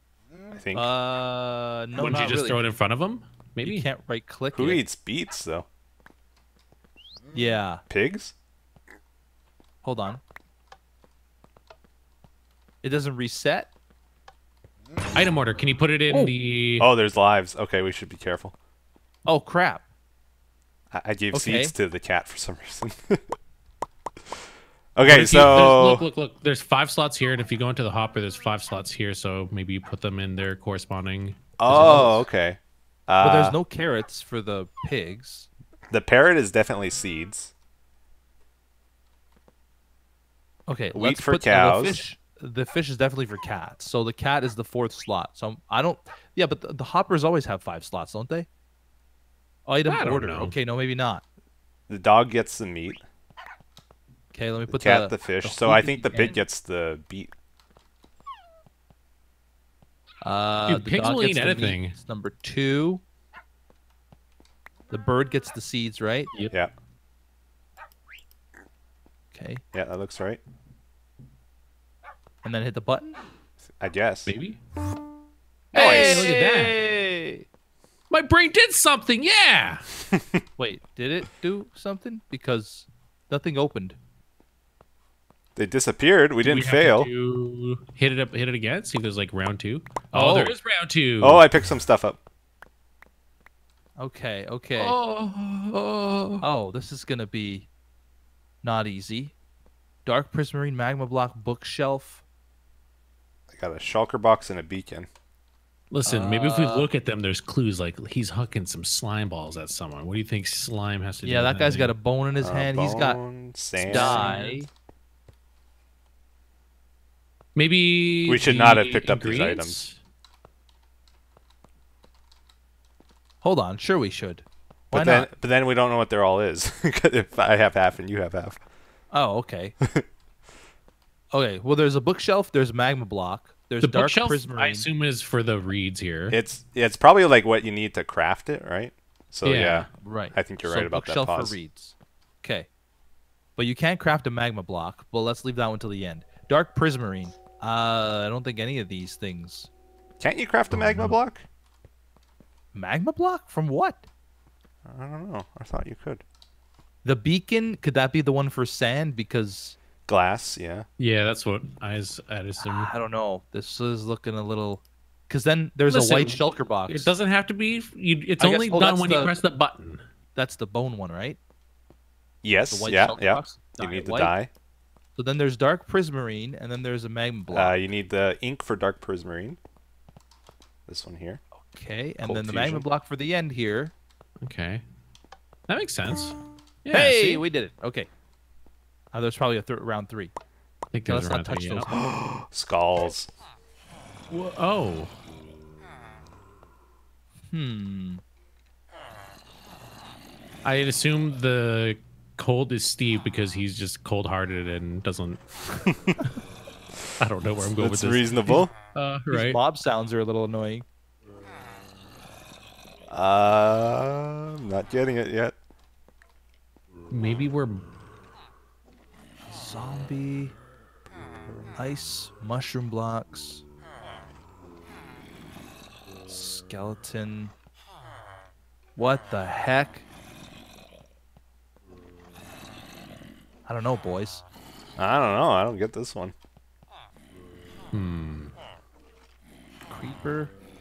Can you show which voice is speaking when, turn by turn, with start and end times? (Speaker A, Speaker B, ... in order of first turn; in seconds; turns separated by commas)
Speaker A: 0.5-0.9, Speaker B: 0.7-2.6, Speaker C: 1.9-3.9, Speaker B: 3.6-4.8, Speaker A: 4.5-5.7, Speaker B: 7.3-7.8, Speaker A: 7.9-8.3, Speaker B: 9.8-10.2, Speaker B: 12.8-13.7, Speaker C: 15.1-16.9, Speaker A: 16.8-18.5, Speaker B: 19.2-19.9, Speaker A: 20.9-23.2, Speaker B: 21.3-21.7, Speaker A: 25.0-26.1, Speaker C: 25.1-32.1, Speaker A: 31.6-33.6, Speaker B: 31.7-32.2, Speaker B: 33.2-35.5, Speaker A: 35.9-37.5, Speaker B: 40.7-48.5, Speaker A: 40.9-42.0, Speaker B: 49.7-51.2, Speaker C: 49.9-50.5, Speaker A: 51.9-53.0, Speaker B: 54.3-56.4, Speaker A: 54.7-57.3, Speaker B: 60.2-63.0, Speaker C: 60.7-62.0, Speaker B: 64.9-66.3, Speaker B: 69.3-69.6, Speaker A: 69.7-70.4, Speaker B: 72.4-73.2, Speaker A: 73.7-74.3, Speaker C: 74.3-74.6, Speaker B: 75.7-77.5, Speaker A: 75.7-76.3, Speaker C: 75.8-76.8, Speaker C: 78.1-79.8, Speaker A: 80.1-80.4, Speaker B: 80.6-84.0, Speaker A: 85.6-87.1, Speaker C: 86.4-91.4, Speaker B: 90.1-90.5, Speaker A: 91.2-92.2, Speaker B: 94.0-95.0, Speaker C: 94.8-96.5, Speaker B: 96.4-97.7, Speaker B: 98.6-99.3, Speaker B: 100.1-102.2, Speaker A: 103.5-105.1, Speaker C: 105.9-112.0, Speaker B: 106.1-106.9, Speaker B: 111.2-113.2, Speaker A: 112.4-114.3, Speaker B: 113.8-114.7, Speaker C: 113.9-114.6, Speaker C: 117.6-120.0, Speaker A: 118.3-119.8, Speaker B: 123.4-125.3, Speaker A: 124.9-128.6, Speaker B: 129.1-129.8, Speaker A: 129.8-130.1, Speaker B: 131.3-134.9, Speaker C: 133.8-136.4, Speaker A: 136.3-141.6, Speaker C: 139.4-139.9, Speaker B: 140.0-142.7, Speaker B: 143.6-149.7, Speaker A: 150.2-151.4, Speaker C: 150.7-151.2, Speaker B: 152.7-154.1, Speaker A: 154.8-156.2, Speaker B: 157.0-159.8, Speaker A: 160.1-160.8, Speaker C: 161.0-162.9, Speaker B: 162.6-167.1, Speaker C: 165.9-170.0, Speaker B: 168.4-169.3, Speaker B: 170.3-171.4, Speaker A: 172.4-174.5, Speaker B: 172.7-174.3, Speaker B: 175.2-177.8, Speaker A: 177.5-179.6, Speaker A: 180.9-181.4, Speaker B: 181.6-183.9, Speaker A: 182.2-182.8, Speaker C: 184.4-184.8, Speaker C: 185.7-187.4, Speaker B: 186.9-188.1, Speaker B: 189.1-190.3, Speaker C: 190.9-191.9, Speaker B: 191.1-192.0, Speaker A: 191.9-193.3, Speaker C: 194.3-195.1, Speaker B: 197.5-198.2, Speaker C: 200.6-205.4, Speaker A: 205.9-206.2, Speaker C: 207.2-209.6, Speaker A: 207.8-208.7, Speaker B: 209.3-210.8, Speaker A: 213.1-215.6, Speaker C: 217.1-217.8, Speaker B: 219.5-220.6, Speaker B: 221.8-223.6, Speaker B: 226.3-227.5, Speaker B: 229.0-230.1, Speaker B: 233.7-234.4, Speaker A: 235.0-236.3, Speaker C: 237.9-238.5, Speaker B: 239.9-240.5